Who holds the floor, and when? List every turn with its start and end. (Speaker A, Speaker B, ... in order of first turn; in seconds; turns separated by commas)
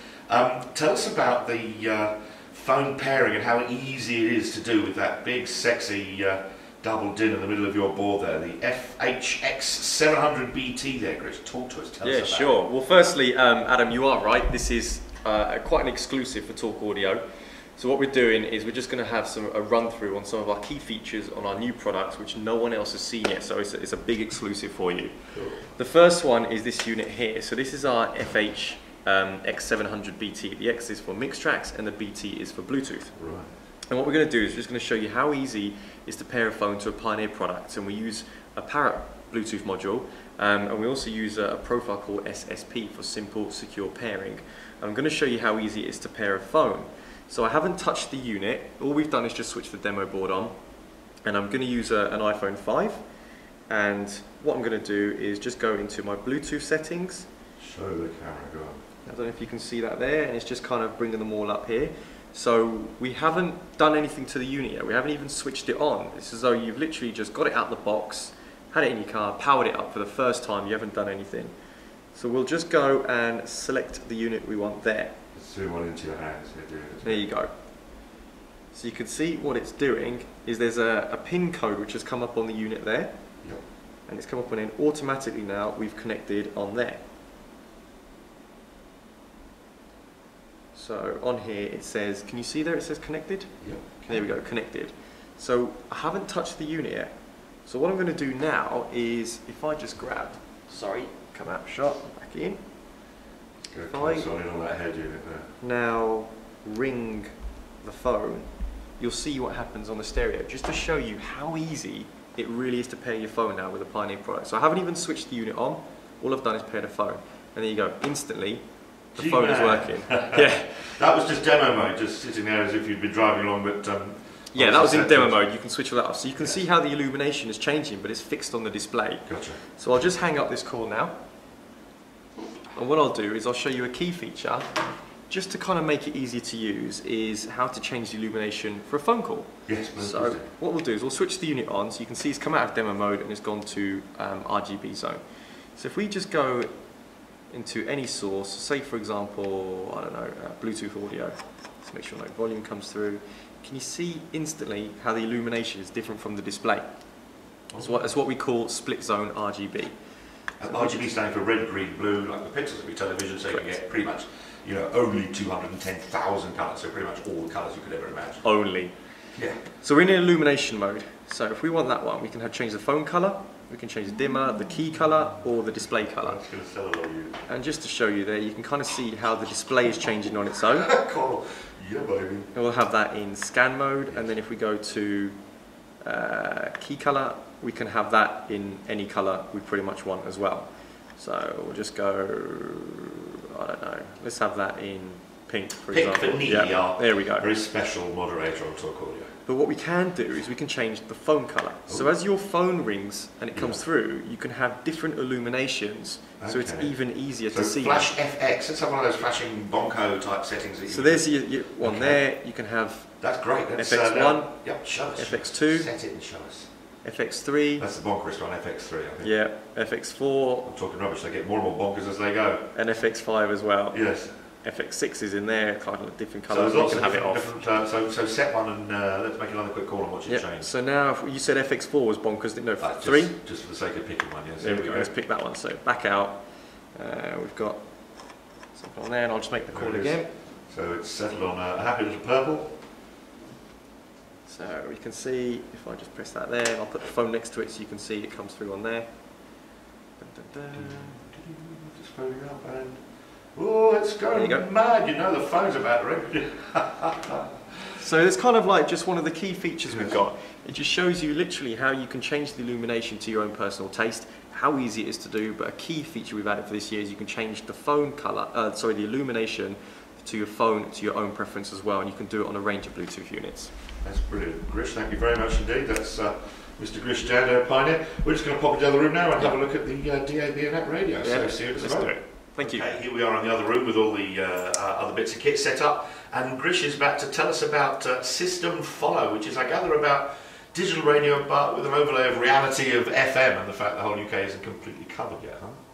Speaker A: 0.3-12.6, Speaker B: 12.0-17.2, Speaker B: 17.8-33.2, Speaker A: 25.3-25.6, Speaker A: 33.2-33.5, Speaker B: 33.9-50.6, Speaker B: 51.2-53.0, Speaker B: 53.7-57.3, Speaker A: 57.6-58.8, Speaker B: 59.0-71.5, Speaker B: 72.1-75.2, Speaker A: 75.3-77.3, Speaker B: 77.0-78.0, Speaker B: 78.7-83.3, Speaker B: 84.0-87.0, Speaker B: 90.7-102.7, Speaker A: 103.7-105.5, Speaker B: 103.9-104.3, Speaker B: 105.6-120.9, Speaker A: 119.2-125.4, Speaker B: 124.5-131.2, Speaker A: 129.2-129.6, Speaker B: 132.7-145.2, Speaker A: 139.7-140.5, Speaker B: 145.7-146.7, Speaker B: 147.5-156.9, Speaker A: 157.7-158.1, Speaker B: 157.8-159.9, Speaker A: 160.6-168.4, Speaker B: 160.6-161.1, Speaker B: 163.5-163.8, Speaker B: 168.4-168.9, Speaker A: 169.3-169.6, Speaker B: 169.7-176.4, Speaker A: 176.2-177.4, Speaker B: 177.5-180.9, Speaker A: 180.8-182.5, Speaker B: 182.5-185.5, Speaker B: 186.0-197.5, Speaker A: 195.9-199.3, Speaker B: 199.4-208.1, Speaker A: 203.5-203.8, Speaker A: 206.4-206.9, Speaker A: 207.5-212.2, Speaker B: 210.9-213.2, Speaker A: 213.2-216.7, Speaker B: 213.8-215.9, Speaker B: 217.0-217.9, Speaker A: 217.8-219.3, Speaker B: 219.2-220.7, Speaker A: 220.7-222.7, Speaker B: 222.7-224.0, Speaker A: 223.9-224.3, Speaker B: 224.6-227.5, Speaker A: 226.5-230.7, Speaker B: 230.3-233.4, Speaker A: 232.8-235.1, Speaker B: 234.6-240.3, Speaker A: 239.7-242.7, Speaker B: 244.4-251.2, Speaker A: 250.8-253.0, Speaker A: 253.5-257.7, Speaker B: 254.3-254.7, Speaker B: 258.0-273.7, Speaker A: 259.9-260.2, Speaker A: 274.0-295.7, Speaker B: 281.2-282.9